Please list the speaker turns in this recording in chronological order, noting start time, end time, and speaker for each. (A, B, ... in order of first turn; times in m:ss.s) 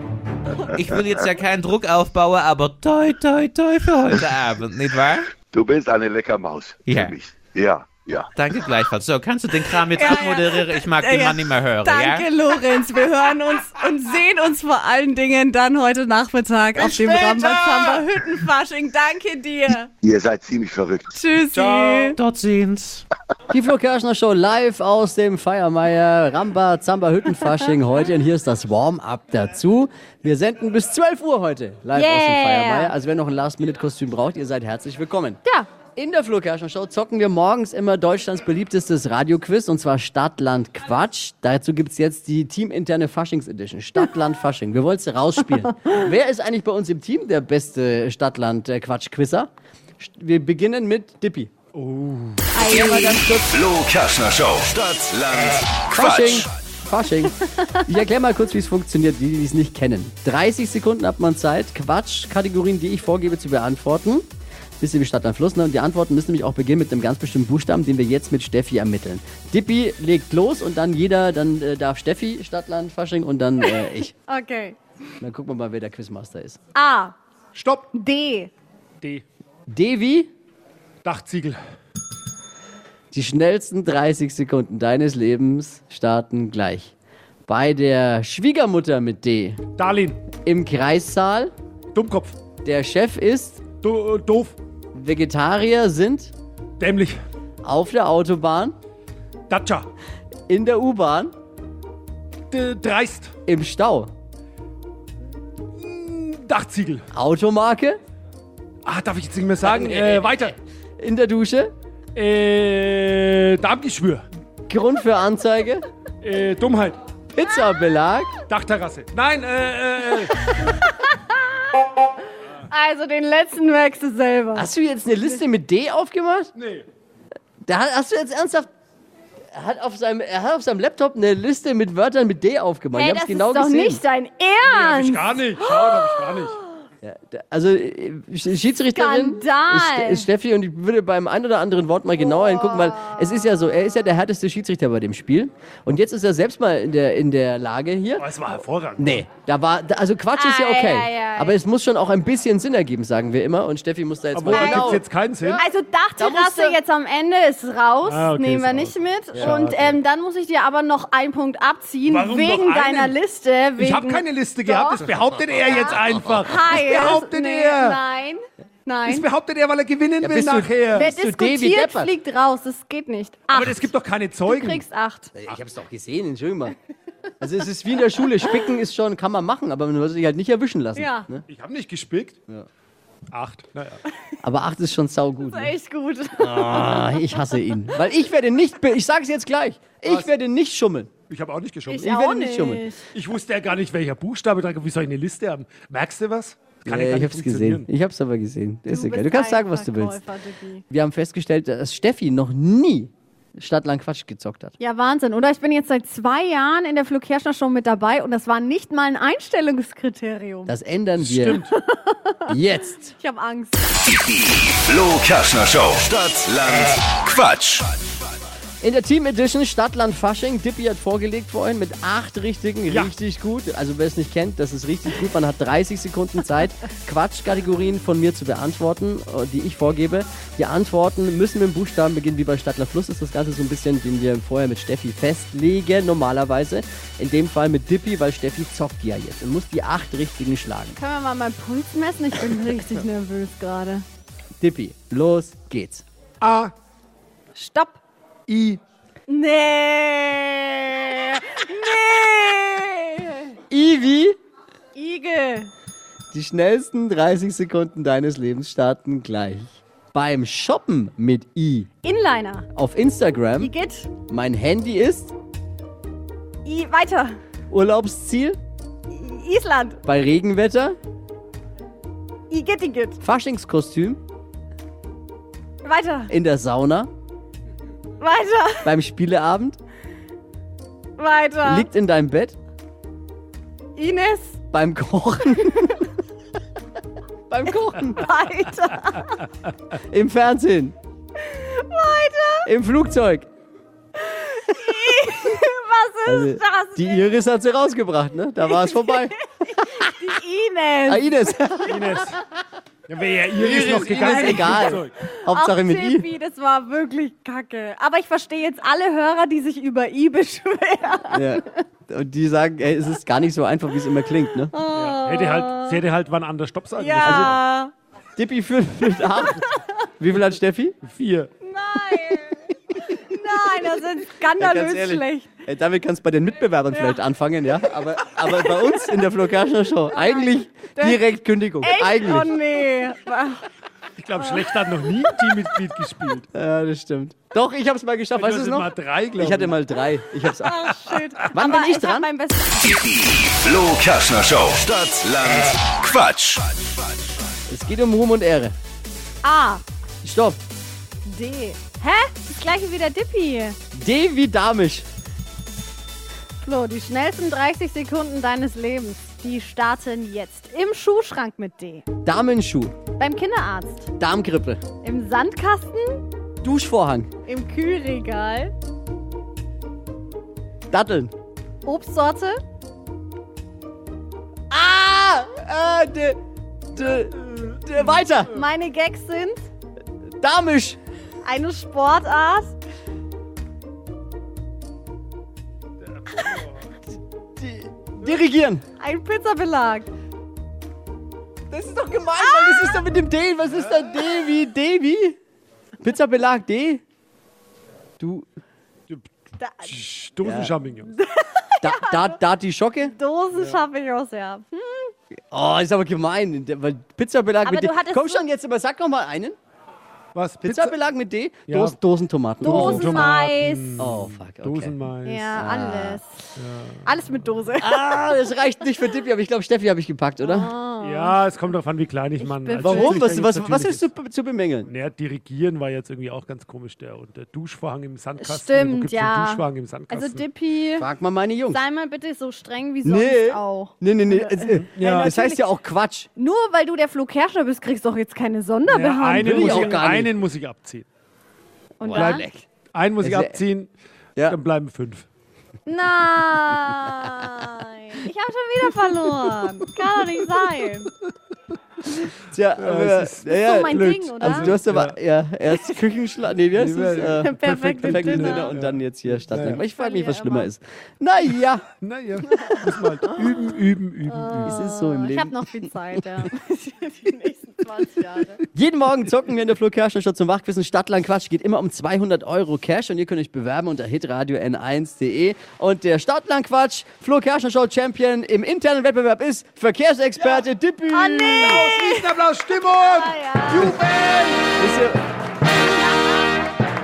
0:00.7-0:05.3 A
0:05.5-0:08.3 B
0:06.9-0:07.1 A
0:08.3-0:12.3 A
0:09.9-0:19.9 C
0:17.1-0:17.9 D
0:20.0-0:21.1 B
0:21.1-0:22.2 C
0:21.8-0:22.1 D
0:22.2-0:23.0 A
0:23.5-0:35.4 E
0:31.9-0:32.9 C
0:35.9-0:51.5 E
0:51.7-0:52.5 D
0:52.5-0:53.3 C
0:52.6-0:53.5 E
0:52.8-0:56.5 F
0:55.9-1:04.3 E
1:04.8-1:14.1 E
1:13.6-1:14.8 C
1:15.2-1:16.6 E
1:16.8-1:17.1 C
1:17.5-1:17.9 D
1:17.9-1:18.5 C
1:19.7-1:20.3 E
1:21.0-1:21.6 D
1:23.1-1:26.9 E
1:27.5-1:29.6 E
1:29.8-1:30.3 D
1:30.3-1:31.5 E
1:31.9-1:32.4 D
1:32.6-1:33.6 E
1:33.8-1:34.6 D
1:34.9-1:36.3 E
1:36.8-1:37.2 D
1:37.6-1:38.8 E
1:39.5-1:39.9 D
1:40.5-1:41.3 E
1:42.5-1:43.3 D
1:43.4-1:44.1 E
1:45.8-1:47.1 D
1:47.1-1:48.0 E
1:48.8-1:50.6 D
1:49.6-1:50.3 E
1:51.0-1:51.7 E
1:52.1-1:54.3 D
1:54.7-1:55.9 E
1:56.2-1:57.1 D
1:57.4-1:58.4 E
1:58.5-2:00.5 D
2:00.7-2:01.4 C
2:02.7-2:04.7 C
2:04.6-2:06.5 E
2:06.6-2:06.9 D
2:07.6-2:08.7 E
2:09.5-2:14.0 E
2:12.9-2:16.6 C
2:14.6-2:16.6 D
2:17.0-2:28.3 E
2:18.9-2:20.3 C
2:28.2-2:29.2 D
2:29.0-2:36.8 E
2:30.4-2:31.6 C
2:34.3-2:35.6 D
2:34.5-2:35.0 C
2:35.6-2:49.3 C
2:38.0-2:39.5 D
2:39.3-2:40.0 E
2:42.1-2:43.2 D
2:43.8-2:48.0 D
2:49.1-2:51.1 D
2:50.2-2:52.1 E
2:50.9-2:53.9 C
2:53.5-2:54.8 D
2:54.4-2:55.3 C
2:55.4-2:56.8 E
2:57.4-3:01.4 E
3:01.0-3:01.3 C
3:01.4-3:02.4 D
3:03.3-3:04.0 D
3:04.4-3:05.8 E
3:05.4-3:07.8 C
3:06.4-3:11.1 E
3:10.0-3:10.3 D
3:11.3-3:12.1 D
3:11.9-3:13.0 C
3:12.0-3:12.9 E
3:13.1-3:17.9 D
3:16.8-3:20.2 E
3:18.9-3:20.8 C
3:20.9-3:24.7 E
3:24.8-3:30.7 C
3:30.6-3:31.6 E
3:31.2-3:31.7 D
3:31.4-3:32.6 C
3:32.5-3:33.1 E
3:33.2-3:34.1 C
3:34.3-3:37.9 F
3:38.8-4:01.0 E
3:42.9-3:43.1 D
4:01.0-4:04.0 C
4:04.6-4:06.0 E
4:06.4-4:06.7 D
4:07.6-4:08.0 C
4:08.5-4:08.8 D
4:09.3-4:13.6 C
4:13.7-4:14.4 E
4:15.0-4:15.7 C
4:16.3-4:21.9 E
4:22.0-4:22.7 C
4:22.8-4:23.7 E
4:23.6-4:24.1 C
4:24.3-4:25.3 E
4:26.6-4:27.4 C
4:27.7-4:28.6 E
4:29.1-4:30.0 C
4:30.0-4:31.0 E
4:32.5-4:33.2 C
4:33.2-4:34.2 E
4:35.8-4:36.3 C
4:36.3-4:37.1 E
4:38.2-4:38.9 C
4:38.8-4:39.8 E
4:41.2-4:41.9 C
4:41.6-4:42.6 E
4:44.0-4:44.6 C
4:44.7-4:46.0 E
4:47.5-4:48.3 E
4:48.0-4:49.4 C
4:50.0-4:50.9 E
4:51.4-4:52.7 C
4:52.6-4:53.5 E
4:54.2-4:57.4 C
4:56.3-4:59.4 E
4:58.7-5:01.5 C
5:01.1-5:02.1 E
5:01.9-5:02.4 D
5:03.1-5:05.1 D
5:03.5-5:06.3 E
5:03.9-5:11.6 C
5:11.3-5:14.7 E
5:14.7-5:16.0 C
5:14.9-5:17.6 D
5:17.0-5:17.9 C
5:17.2-5:17.6 E
5:18.4-5:19.6 E
5:19.6-5:19.8 C
5:20.2-5:21.0 E
5:21.0-5:21.5 D
5:21.6-5:25.5 C
5:24.6-5:32.5 E
5:30.1-5:31.2 C
5:31.8-5:33.6 C
5:34.2-5:36.5 D
5:36.5-5:42.3 E
5:38.4-5:39.8 D
5:40.6-5:43.0 C
5:43.1-5:46.7 F
5:47.7-5:48.8 E
5:49.4-5:49.8 C
5:50.2-5:50.6 E
5:51.2-5:53.8 C
5:53.9-5:55.1 E
5:56.6-6:02.1 C
6:02.2-6:03.0 E
6:03.2-6:04.1 C
6:04.2-6:04.8 E
6:05.0-6:06.2 C
6:06.6-6:07.3 E
6:07.4-6:08.7 C
6:10.9-6:11.3 E
6:11.8-6:12.6 C
6:14.7-6:16.4 E
6:16.9-6:18.5 E
6:18.5-6:19.6 C
6:20.4-6:21.0 E
6:21.4-6:22.7 C
6:26.2-6:26.8 D
6:27.6-6:28.8 E
6:29.0-6:30.1 C
6:31.7-6:35.4 E
6:32.4-6:33.0 C
6:36.0-6:37.0 E
6:38.2-6:38.5 E
6:39.6-6:39.9 C
6:39.8-6:41.1 D
6:40.4-6:40.7 E
6:41.1-6:42.4 C
6:41.8-6:43.1 E
6:43.1-6:45.1 C
6:43.5-6:43.8 D
6:45.5-6:49.6 E
6:47.6-6:48.4 C
6:50.3-6:51.0 D
6:50.6-6:53.3 E
6:51.7-6:52.0 D
6:52.6-6:54.1 C
6:52.6-6:55.5 D
6:54.0-6:54.9 E
6:55.2-6:56.4 C
6:55.6-6:56.2 E
6:56.6-6:57.5 D
6:57.0-6:58.1 C
6:57.8-7:00.7 E
7:00.4-7:01.4 C
7:01.0-7:04.1 D
7:02.4-7:03.3 C
7:02.8-7:04.9 E
7:04.9-7:10.4 D
7:08.4-7:11.1 C
7:11.0-7:11.8 E
7:11.7-7:15.7 C
7:13.0-7:16.3 E
7:14.7-7:15.4 D
7:16.4-7:20.1 C
7:18.9-7:21.1 D
7:19.4-7:20.3 E
7:22.0-7:22.6 C
7:22.2-7:23.9 D
7:23.2-7:23.6 E
7:24.4-7:25.3 D
7:25.9-7:31.1 C
7:32.4-7:41.9 E
7:32.8-7:35.1 D
7:33.5-7:34.8 C
7:36.7-7:39.8 D
7:37.4-7:38.7 C
7:39.8-7:40.7 C
7:42.0-7:44.8 D
7:44.3-7:48.6 C
7:44.6-7:45.8 E
7:48.7-8:01.8 E
8:01.1-8:04.0 C
8:01.5-8:04.7 D
8:04.7-8:05.2 E
8:05.8-8:06.4 C